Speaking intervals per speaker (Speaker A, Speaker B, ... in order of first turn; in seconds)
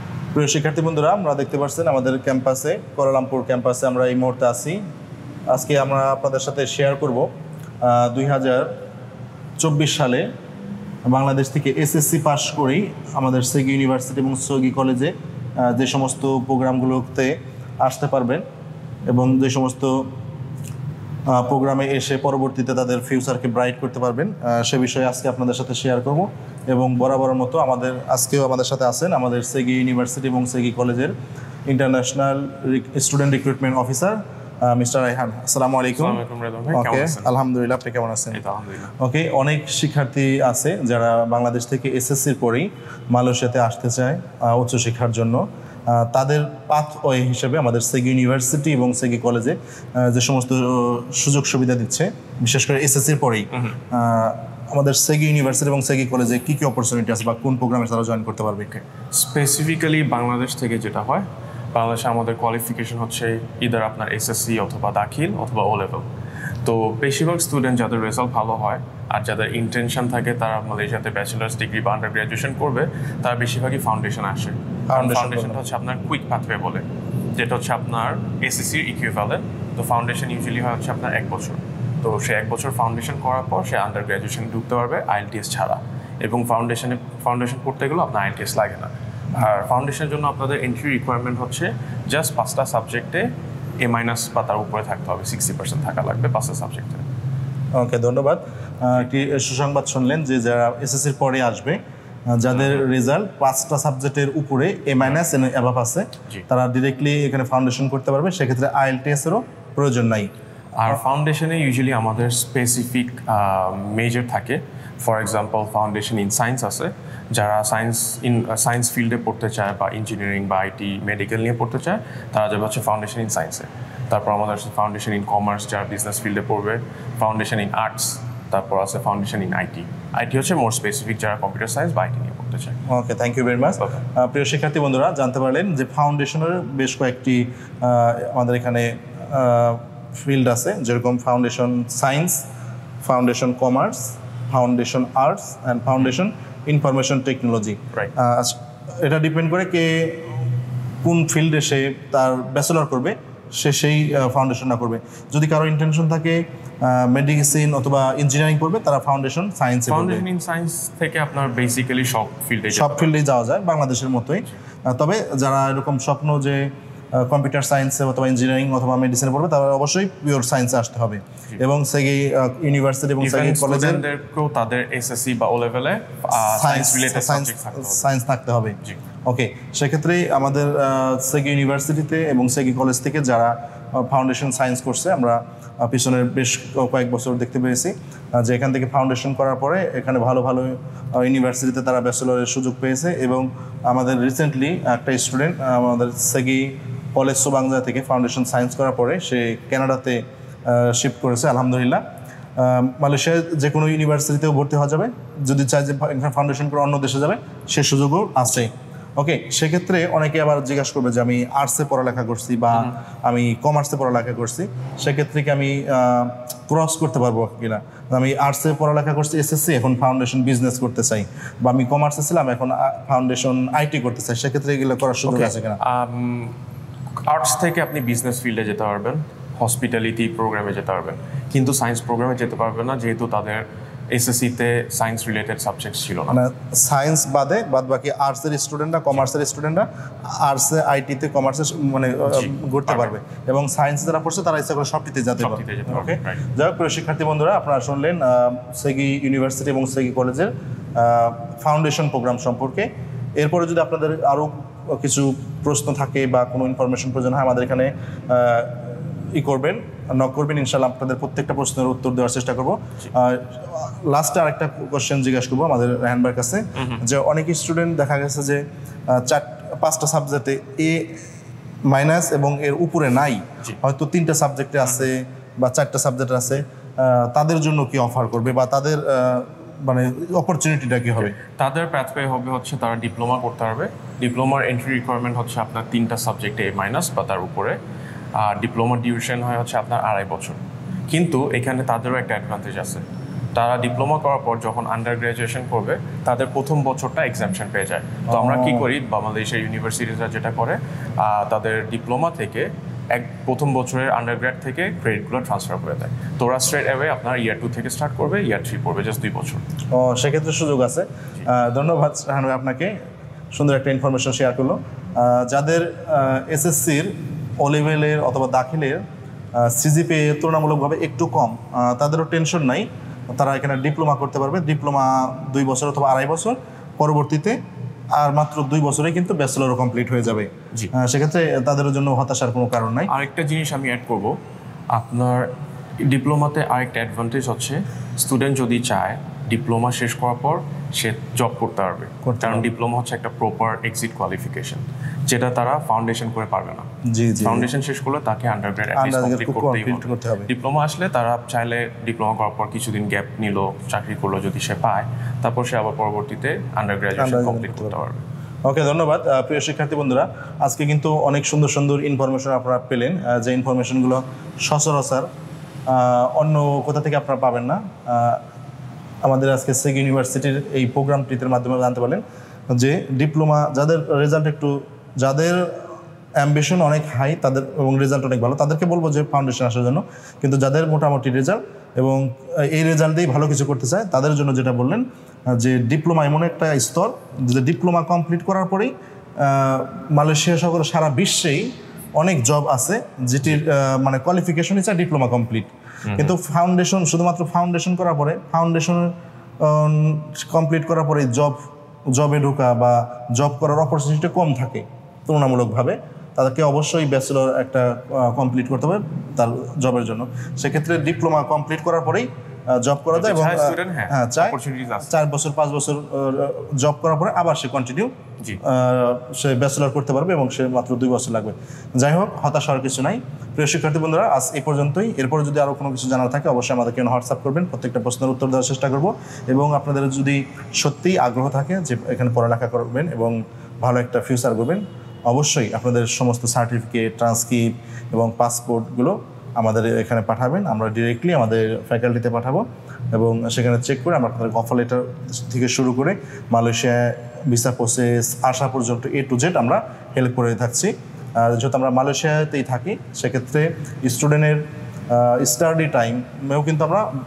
Speaker A: 0.3-4.8, 5.5-7.3, 7.8-8.7, 9.6-10.3, 11.1-18.4, 19.1-20.1, 21.3-31.1, 31.7-36.2, 36.7-38.4, 39.0-58.7, 74.9-75.6, 97.8-101.8, 102.3-110.3, 132.9-142.4, 143.0-150.4, 151.0-160.2, 162.7-174.0, 176.3-202.0, 202.6-225.8, 236.3-271.2, 271.9-281.4, 298.3-298.9, 309.9-313.0, 313.5-319.0, 319.6-327.6, 328.2-333.1, 342.2-342.6, 347.1-347.7, 348.9-350.5, 357.2-357.9, 358.6-365.3, 365.9-368.4, 369.2-375.9, 376.4-401.6, 402.1-457.1
Speaker B: 35.9-37.3, 38.3-38.9, 58.7-66.1, 66.7-93.3, 93.8-97.0, 110.8-132.8, 159.9-163.1, 173.2-178.1, 225.3-226.6, 227.2-236.4, 242.3-243.1, 245.4-246.4, 266.8-267.0, 281.4-287.8, 288.4-293.0, 293.6-309.6, 333.1-334.4, 334.9-335.5, 336.1-346.9, 347.4-358.2, 396.1-396.3, 413.1-415.1